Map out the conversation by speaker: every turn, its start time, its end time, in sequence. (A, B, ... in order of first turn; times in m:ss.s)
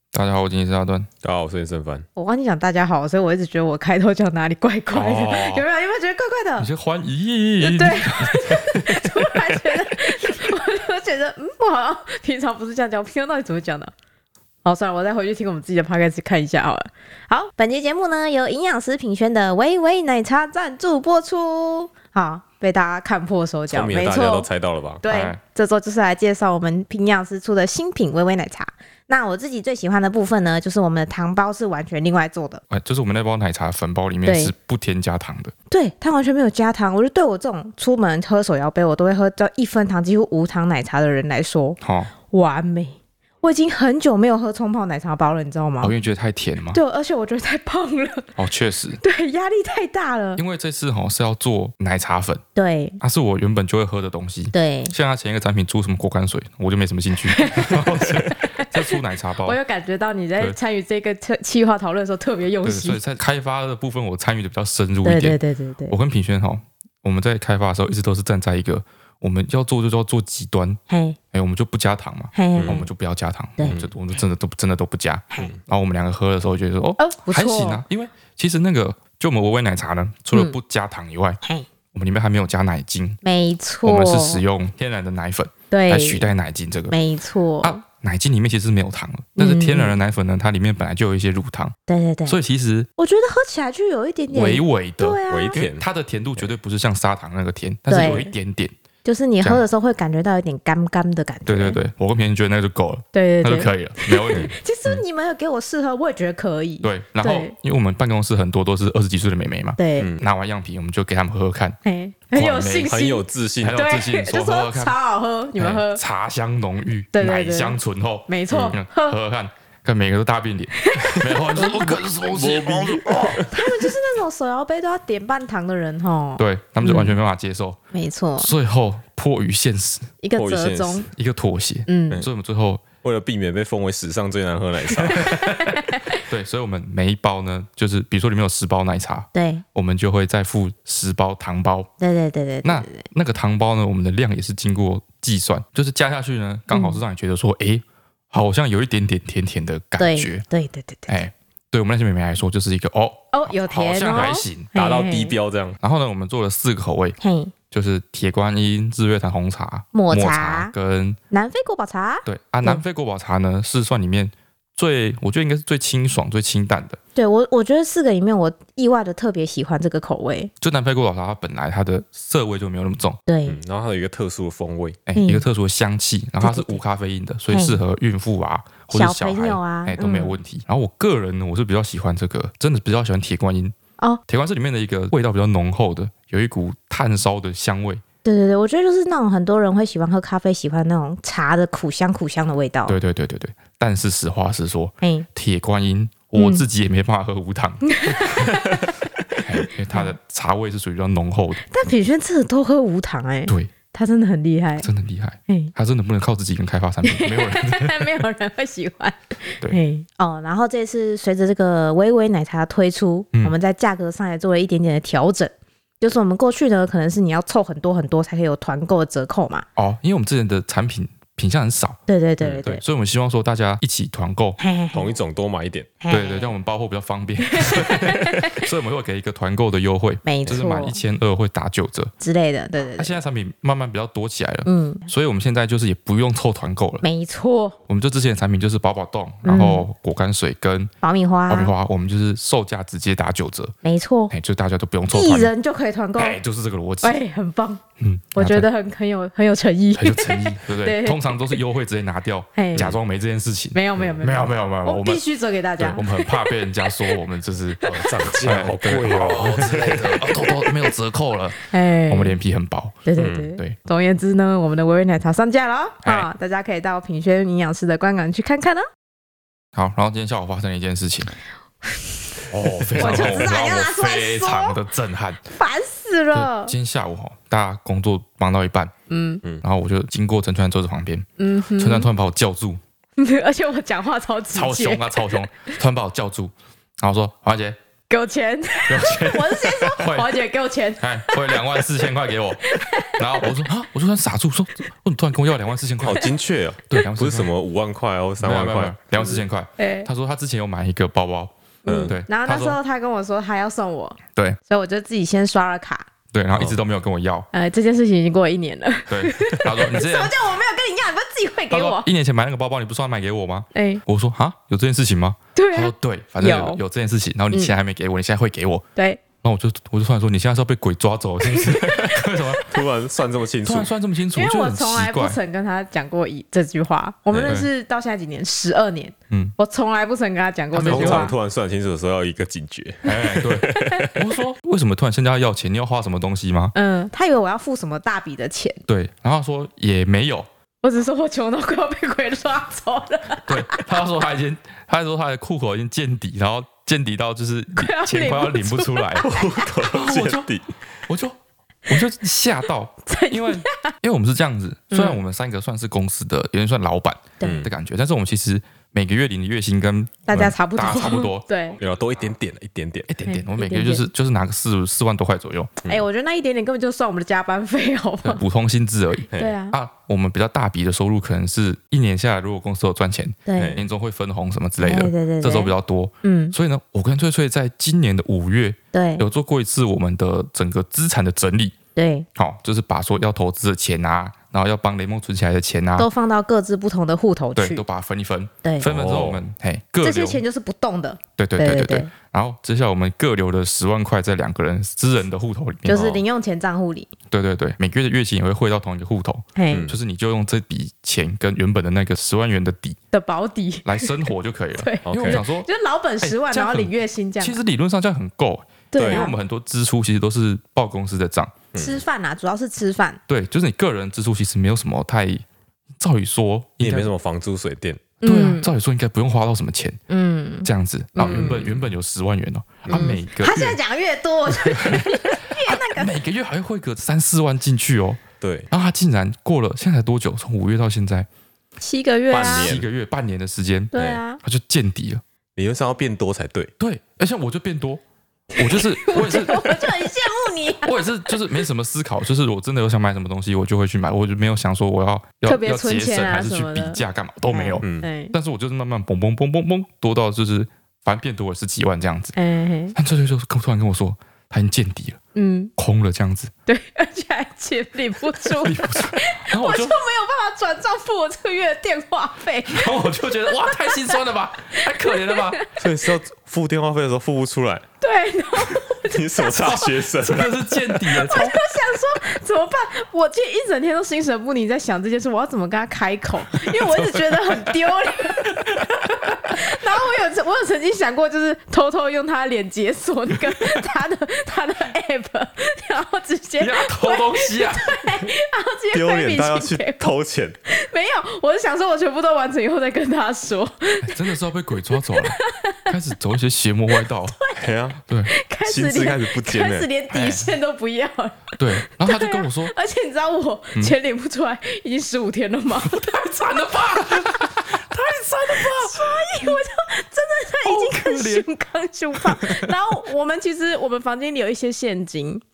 0:00.1-0:01.1 A
0:01.2-0:02.1 B
0:02.2-0:06.7 C
0:04.9-0:05.7 A
0:06.6-0:08.5 A
0:07.6-0:13.9 C
0:14.6-0:24.5 C
0:23.7-0:25.0 B
0:25.0-0:32.6 C
0:25.1-0:25.4 A
0:32.7-0:35.5 A
0:34.2-0:34.5 C
0:35.7-0:45.9 C
0:41.8-0:42.1 A
0:45.8-0:46.8 A
0:46.7-0:48.3 C
0:48.4-0:49.0 A
0:49.0-0:50.4 C
0:50.4-0:52.4 A
0:52.6-0:53.0 C
0:53.0-0:59.6 A
0:54.5-0:54.9 C
0:57.3-1:03.0 C
1:02.6-1:05.4 A
1:05.0-1:06.0 C
1:05.9-1:10.8 A
1:10.9-1:11.2 C
1:11.3-1:21.4 A
1:12.3-1:12.8 C
1:12.6-1:12.9 B
1:17.0-1:17.8 C
1:21.4-1:21.7 C
1:21.9-1:23.2 A
1:23.2-1:24.4 C
1:23.8-1:27.0 A
1:25.7-1:26.2 C
1:26.9-1:27.8 C
1:27.6-1:31.8 A
1:29.4-1:30.0 C
1:31.9-1:32.4 C
1:32.3-1:32.9 A
1:33.0-1:35.6 C
1:34.3-1:38.7 A
1:35.3-1:35.8 B
1:37.9-1:38.3 C
1:39.0-1:41.8 C
1:41.5-1:45.0 A
1:43.1-1:47.5 C
1:46.8-1:51.8 A
1:49.8-1:50.1 C
1:51.8-1:56.0 C
1:52.3-1:52.9 A
1:52.8-1:53.8 B
1:53.6-1:55.0 A
1:55.6-2:03.4 A
1:57.1-1:59.2 C
2:00.8-2:02.0 C
2:01.8-2:03.5 B
2:03.5-2:07.2 C
2:06.4-2:07.8 A
2:07.9-2:08.5 C
2:08.4-2:10.1 A
2:10.2-2:11.1 C
2:10.4-2:11.1 B
2:11.1-2:12.8 A
2:11.9-2:12.2 C
2:13.0-2:15.4 B
2:15.0-2:21.9 A
2:15.2-2:16.2 C
2:19.3-2:19.6 C
2:22.0-2:23.0 C
2:22.6-2:30.4 A
2:26.7-2:27.0 C
2:30.0-2:31.1 C
2:31.1-2:34.7 A
2:33.3-2:35.3 C
2:34.7-2:35.8 B
2:35.8-2:37.2 A
2:37.2-2:37.5 C
2:37.7-2:41.2 A
2:39.9-2:40.7 C
2:41.3-2:42.8 C
2:42.3-2:47.0 A
2:47.2-2:50.5 C
2:50.6-2:53.2 A
2:53.3-2:53.6 C
2:53.5-2:55.0 B
2:55.1-3:03.8 A
2:55.2-2:55.4 C
2:56.4-2:56.8 C
2:57.5-2:57.8 C
2:58.9-3:00.4 C
3:04.3-3:08.0 A
3:08.2-3:13.0 C
3:12.9-3:18.3 A
3:16.4-3:16.6 C
3:17.8-3:20.1 C
3:19.4-3:21.6 A
3:21.6-3:24.9 C
3:24.8-3:28.1 A
3:27.0-3:39.7 C
3:39.8-3:42.0 A
3:42.1-3:42.8 C
3:42.6-3:44.6 A
3:44.6-3:45.1 C
3:44.9-3:45.9 B
3:46.0-3:46.5 C
3:46.1-3:52.1 A
3:47.5-3:48.6 C
3:50.2-3:51.0 C
3:52.2-3:53.2 C
3:53.0-3:57.0 A
3:54.7-3:55.1 C
3:57.0-3:57.8 C
3:57.9-4:00.9 A
3:59.4-3:59.9 C
4:01.0-4:01.7 C
4:01.5-4:03.7 A
4:03.8-4:04.3 C
4:04.3-4:05.5 A
4:05.1-4:06.4 C
4:06.2-4:07.2 A
4:07.0-4:07.8 C
4:08.0-4:08.7 A
4:08.4-4:11.6 C
4:10.0-4:15.3 A
4:12.6-4:13.0 C
4:13.7-4:16.9 C
4:15.8-4:23.8 A
4:17.9-4:20.5 B
4:20.4-4:20.9 C
4:21.6-4:22.4 C
4:23.1-4:28.8 C
4:23.2-4:23.5 B
4:29.8-4:31.3 A
4:32.5-4:35.4 A
4:32.9-4:33.5 B
4:33.0-4:34.8 C
4:35.5-4:36.7 C
4:36.3-4:38.9 A
4:39.1-4:39.4 C
4:39.6-4:42.8 A
4:41.4-4:42.1 C
4:43.2-4:45.5 C
4:44.5-4:47.8 A
4:48.1-4:51.8 C
4:48.9-4:50.4 A
4:51.0-4:56.4 A
4:52.6-4:53.5 C
4:56.0-4:59.3 B
4:56.9-4:57.5 A
4:58.4-5:01.5 A
4:59.8-5:00.1 C
5:01.8-5:06.1 C
5:01.9-5:02.1 B
5:02.0-5:02.8 A
5:06.3-5:07.5 A
5:06.5-5:06.8 B
5:07.5-5:12.1 C
5:09.1-5:10.4 A
5:11.7-5:18.8 A
5:13.7-5:14.0 C
5:15.6-5:16.8 C
5:19.0-5:19.2 C
5:19.4-5:22.8 A
5:21.5-5:22.4 C
5:22.6-5:23.9 B
5:23.6-5:25.4 A
5:24.3-5:31.3 C
5:27.3-5:27.6 B
5:30.7-5:31.3 A
5:30.8-5:34.2 B
5:33.0-5:36.7 A
5:33.8-5:34.1 C
5:36.8-5:38.8 C
5:38.9-5:40.5 A
5:40.8-5:43.9 C
5:43.5-5:49.3 A
5:47.8-5:49.5 C
5:49.2-5:50.7 B
5:49.8-5:50.5 A
5:51.1-5:51.4 A
5:51.9-6:01.5 A
5:53.1-5:53.9 C
5:54.9-5:55.2 C
5:57.4-5:57.7 C
5:57.4-5:57.7 B
6:00.3-6:01.8 C
6:01.8-6:03.1 B
6:03.1-6:05.8 A
6:03.2-6:04.0 C
6:05.9-6:08.4 C
6:08.2-6:21.8 A
6:09.4-6:09.8 C
6:13.5-6:13.8 C
6:13.6-6:13.9 B
6:14.8-6:15.7 C
6:16.2-6:16.6 C
6:18.9-6:19.2 C
6:22.0-6:22.3 C
6:22.4-6:26.1 A
6:26.0-6:27.8 C
6:27.6-6:30.4 A
6:28.8-6:29.4 B
6:30.0-6:32.1 C
6:31.4-6:36.2 A
6:35.9-6:37.1 C
6:37.3-6:43.0 A
6:39.6-6:39.8 C
6:39.7-6:40.0 B
6:43.1-6:44.1 C
6:43.8-6:45.7 A
6:44.8-6:47.6 C
6:45.1-6:45.4 B
6:46.2-6:51.6 A
6:48.9-6:49.4 C
6:49.0-6:49.3 B
6:51.7-6:52.0 B
6:51.8-6:53.2 C
6:53.3-6:55.4 A
6:56.0-6:57.1 A
6:56.8-6:58.1 B
6:58.2-6:58.7 C
6:58.2-7:00.0 A
7:00.1-7:01.6 C
7:00.6-7:03.8 A
7:01.3-7:01.9 B
7:02.8-7:03.2 B
7:02.9-7:06.1 C
7:04.6-7:11.3 A
7:08.4-7:08.7 B
7:11.8-7:12.7 C
7:12.3-7:12.9 B
7:12.3-7:15.2 A
7:13.9-7:14.4 C
7:15.6-7:16.7 B
7:16.8-7:18.0 A
7:18.5-7:20.9 C
7:18.6-7:19.9 A
7:20.8-7:32.4 A
7:25.4-7:28.3 C
7:32.4-7:33.0 C
7:33.0-7:35.2 A
7:35.4-7:35.7 C
7:35.8-7:36.5 A
7:36.7-7:44.2 C
7:38.4-7:40.0 A
7:42.7-7:45.7 A
7:44.7-7:45.6 C
7:45.8-7:47.8 B
7:48.0-7:49.9 C
7:48.8-7:51.0 B
7:49.6-7:51.6 A
7:51.1-7:58.7 C
7:56.8-7:58.9 A
7:59.4-8:14.4 C
8:06.6-8:08.2 A
8:08.9-8:10.6 B
8:14.0-8:17.4 A
8:14.9-8:15.9 C
8:17.0-8:17.6 C
8:17.6-8:18.0 B
8:18.0-8:18.3 A
8:18.3-8:26.1 C
8:18.6-8:19.9 B
8:20.1-8:20.5 A
8:21.6-8:22.7 A
8:25.8-8:29.6 A
8:27.1-8:27.4 C
8:28.5-8:35.4 C
8:30.6-8:31.5 A
8:32.2-8:32.7 A